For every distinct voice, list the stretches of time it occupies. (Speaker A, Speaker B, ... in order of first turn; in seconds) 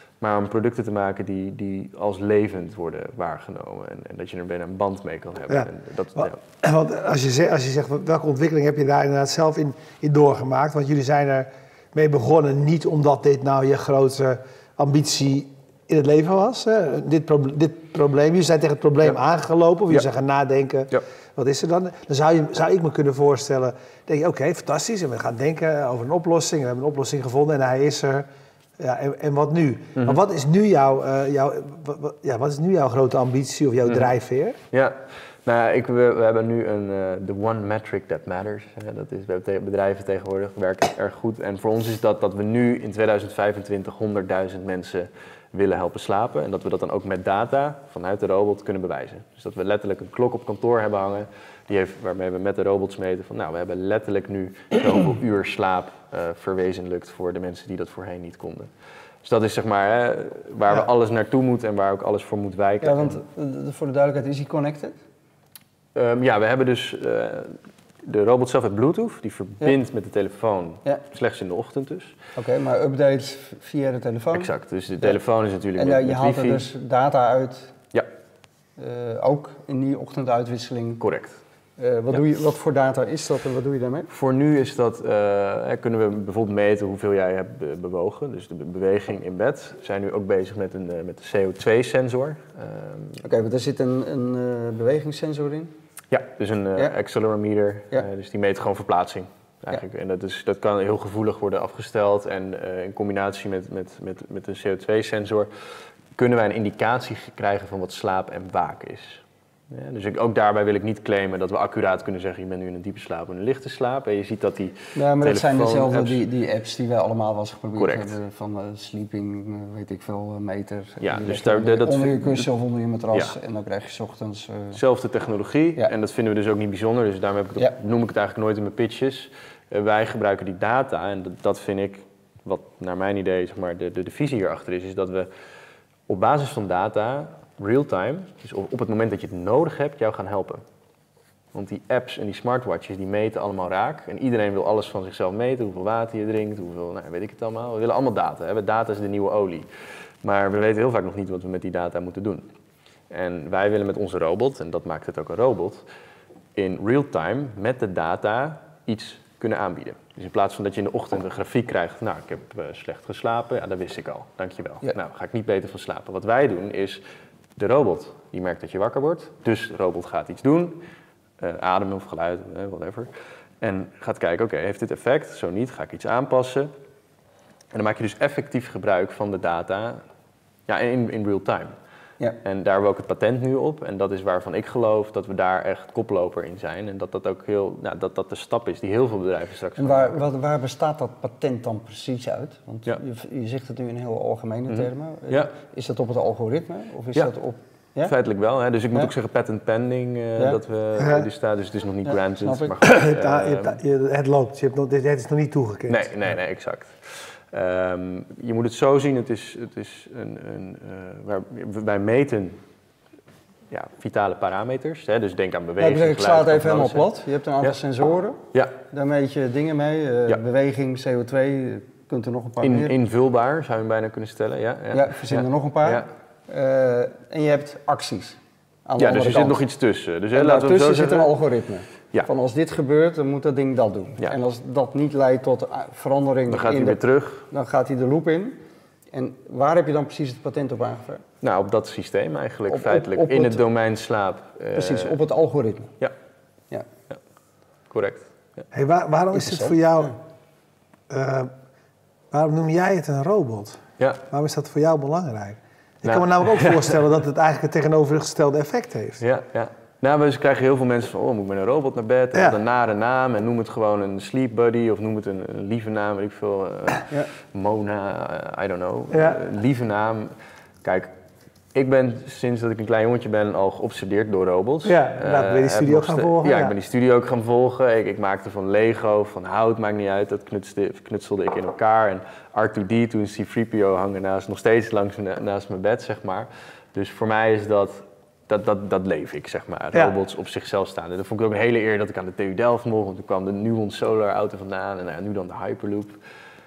Speaker A: 0.2-6.4, 34.7-58.7, 59.2-63.2, 66.0-72.2, 74.3-76.7, 81.0-81.4, 84.1-93.2, 96.1-105.5, 106.2-116.2, 117.8-118.2, 121.0-122.5, 124.8-135.3, 136.1-140.6, 141.5-149.7, 150.2-152.5, 153.1-155.8, 156.6-167.0, 167.6-170.8, 171.4-173.1, 173.6-176.7, 177.7-180.0, 180.7-181.7, 182.4-190.2, 194.7-195.5, 198.0-203.8, 205.9-212.6, 213.7-217.8, 222.6-226.1, 229.0-231.3, 236.5-237.5, 241.4-245.2, 247.9-248.6, 256.0-257.0, 259.2-271.1, 271.7-296.2
Speaker B: 5.5-28.3, 28.8-34.6, 201.0-201.3, 202.8-206.1, 248.7-250.1, 251.1-251.5, 252.3-259.2, 262.3-262.6, 269.1-269.4, 274.9-276.8
Speaker C: 62.8-65.0, 72.4-74.5, 75.8-77.8, 78.8-81.1, 81.8-84.1, 93.2-95.7, 115.0-124.8, 189.8-198.1, 202.1-202.8, 215.8-222.9, 224.9-229.6, 230.3-238.6, 239.1-241.2, 242.7-243.6, 244.8-245.9, 249.3-250.2